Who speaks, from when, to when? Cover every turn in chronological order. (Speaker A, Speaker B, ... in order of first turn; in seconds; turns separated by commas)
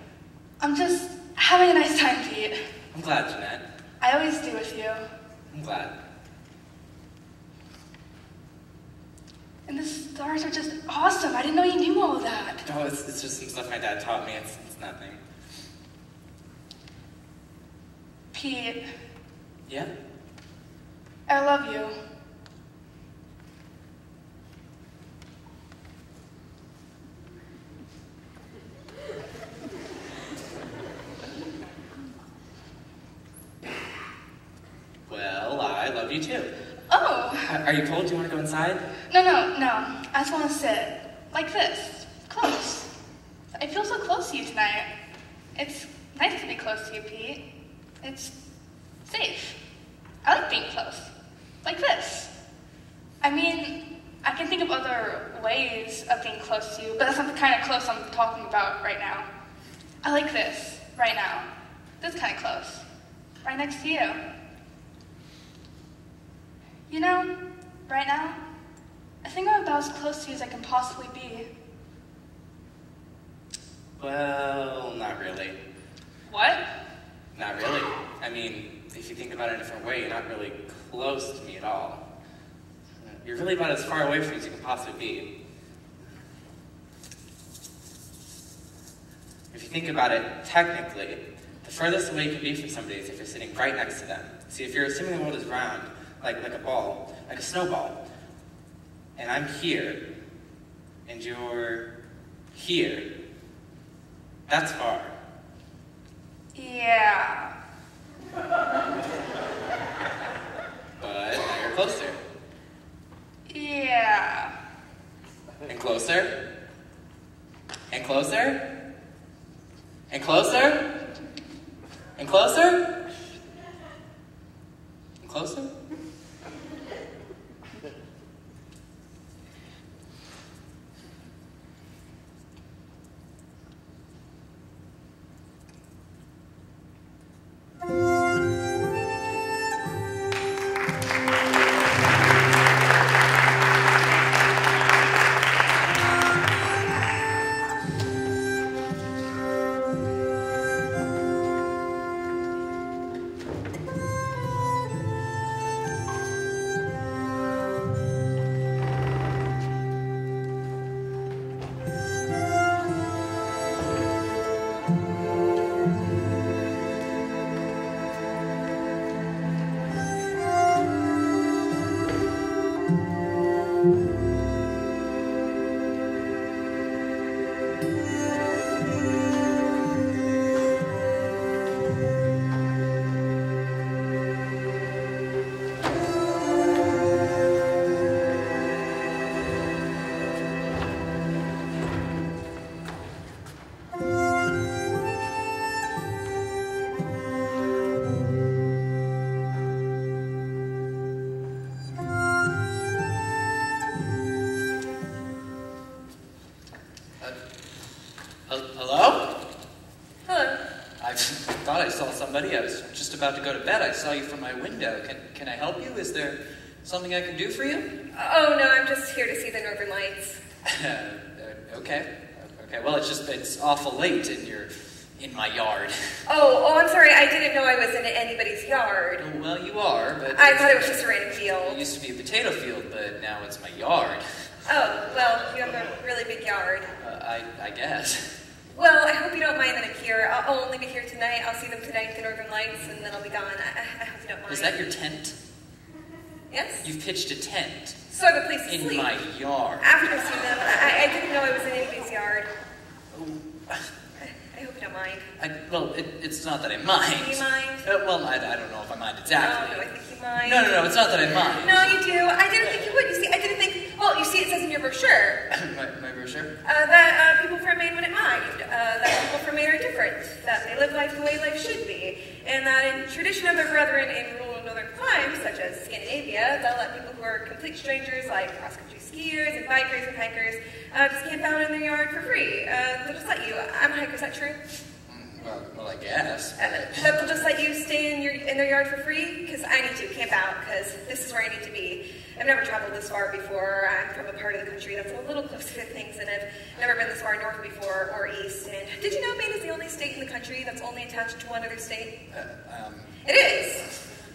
Speaker A: 0.6-2.5, Speaker B: 2.9-3.6, Speaker A: 4.0-5.0, Speaker B: 5.5-5.9, Speaker A: 9.7-12.6, Speaker B: 12.7-15.2, Speaker A: 18.3-18.8, Speaker A: 21.3-21.9, Speaker B: 35.1-36.5, Speaker A: 36.9-37.5, Speaker B: 37.5-38.8, Speaker A: 39.1-42.9, Speaker A: 43.5-44.9, Speaker A: 45.5-47.4, Speaker A: 48.0-48.3, Speaker A: 49.0-49.5, Speaker A: 50.2-51.1, Speaker A: 51.6-52.3, Speaker A: 53.2-59.3, Speaker A: 60.0-61.5, Speaker A: 62.0-62.8, Speaker A: 63.4-64.2, Speaker A: 66.9-67.3, Speaker A: 67.8-68.4, Speaker A: 69.2-71.5, Speaker B: 74.0-75.6, Speaker A: 76.3-76.6, Speaker B: 77.3-82.0, Speaker B: 83.0-85.3, Speaker B: 89.5-98.0, Speaker B: 99.2-100.0, Speaker B: 101.0-101.8, Speaker B: 102.5-103.1, Speaker B: 104.5-105.1, Speaker A: 106.5-107.5, Speaker B: 111.0-112.2, Speaker A: 113.5-114.5, Speaker B: 115.7-116.3, Speaker B: 117.9-118.6, Speaker B: 120.1-120.8, Speaker B: 122.2-122.8, Speaker B: 125.2-125.7, Speaker C: 208.5-209.2, Speaker D: 210.2-210.6, Speaker C: 211.0-217.9, Speaker D: 218.1-220.4, Speaker C: 220.6-226.2, Speaker D: 226.3-229.2, Speaker C: 229.2-234.2, Speaker D: 230.3-231.8, Speaker D: 234.7-236.9, Speaker C: 237.0-238.3, Speaker D: 238.7-244.8, Speaker C: 244.5-245.3, Speaker D: 246.5-246.8, Speaker C: 246.8-248.0, Speaker D: 248.1-249.1, Speaker C: 248.7-249.9, Speaker D: 249.8-252.5, Speaker C: 253.1-253.8, Speaker D: 254.3-255.2, Speaker C: 255.4-259.9, Speaker D: 257.1-257.8, Speaker D: 259.4-260.7, Speaker C: 260.4-261.9, Speaker D: 261.6-265.4, Speaker C: 265.5-266.5, Speaker D: 266.6-284.6, Speaker C: 285.1-287.0, Speaker D: 286.6-302.1, Speaker C: 302.3-303.1, Speaker D: 303.2-303.9